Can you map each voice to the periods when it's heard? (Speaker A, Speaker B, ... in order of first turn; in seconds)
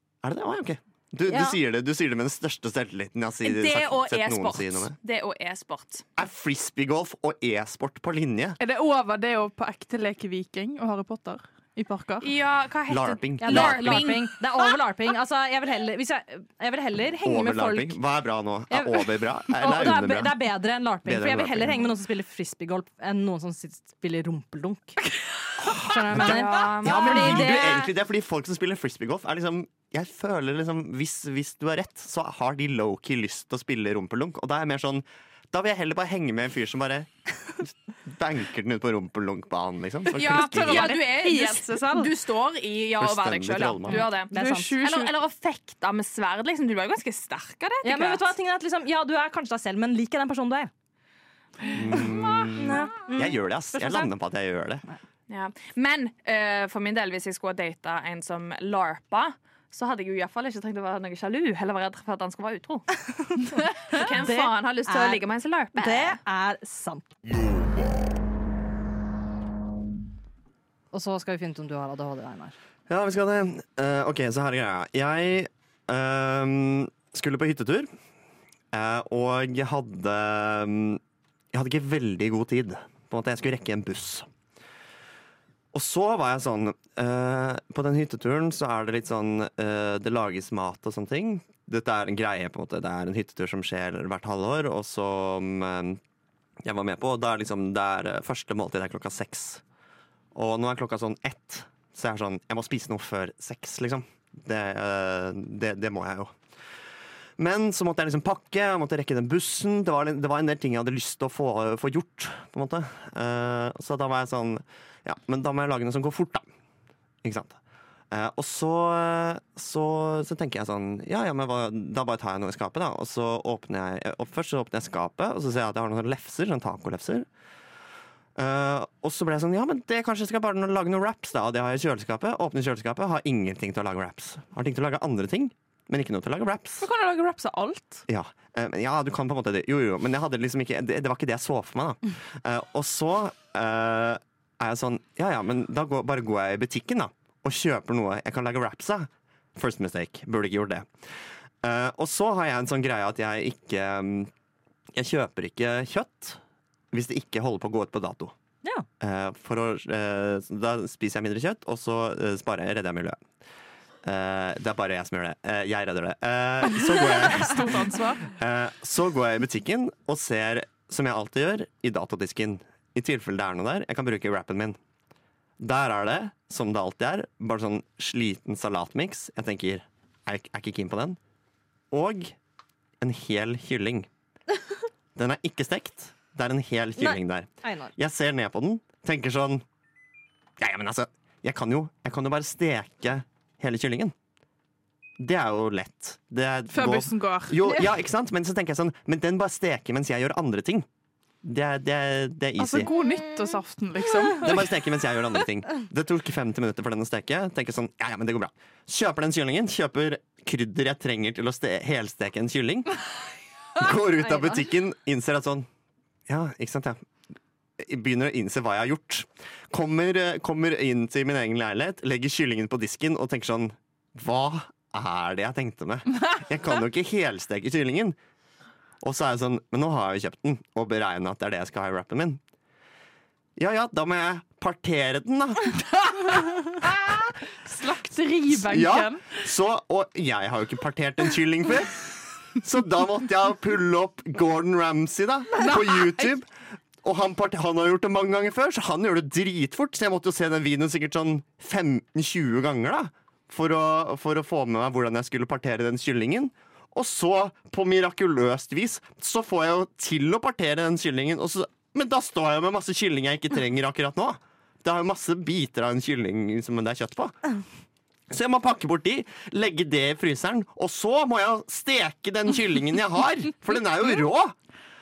Speaker A: 0.2-4.9, 6.2-8.6, 12.9-14.1, 17.2-20.3, 21.0-21.8, 25.7-40.9, 43.0-44.0, 51.7-54.8, 72.9-77.9, 78.7-81.0, 81.5-84.3, 85.7-96.0, 96.6-99.6, 100.3-106.3, 107.4-116.5, 117.2-117.6, 118.1-127.3, 128.3-136.9, 138.1-150.9, 151.6-154.3, 154.9-156.4, 156.9-158.3, 159.0-163.2, 164.0-174.8, 175.6-181.2, 181.9-182.3, 183.0-184.1, 185.2-189.6, 190.6-194.1, 195.2-200.9, 201.4-202.9, 204.3-212.9, 213.8-215.7, 216.3-217.0, 217.8-228.2, 229.0-232.4, 233.6-236.9, 238.5-242.0, 242.5-246.5, 247.0-267.3, 268.3-274.5
Speaker B: 3.4-6.1, 12.2-14.4, 26.1-27.6, 40.1-48.3, 55.3-62.9, 63.5-66.2
Speaker C: 8.6-12.3, 40.1-42.1, 44.3-45.1, 136.8-138.0, 166.9-168.3, 196.7-197.6, 202.6-204.6, 236.8-239.3, 245.6-246.3
Speaker D: 13.4-18.0, 18.7-25.0, 25.7-27.9, 43.9-44.8, 47.8-50.7, 52.0-54.1, 63.2-65.2, 65.8-67.0, 70.9-72.5, 187.0-187.9, 214.2-214.6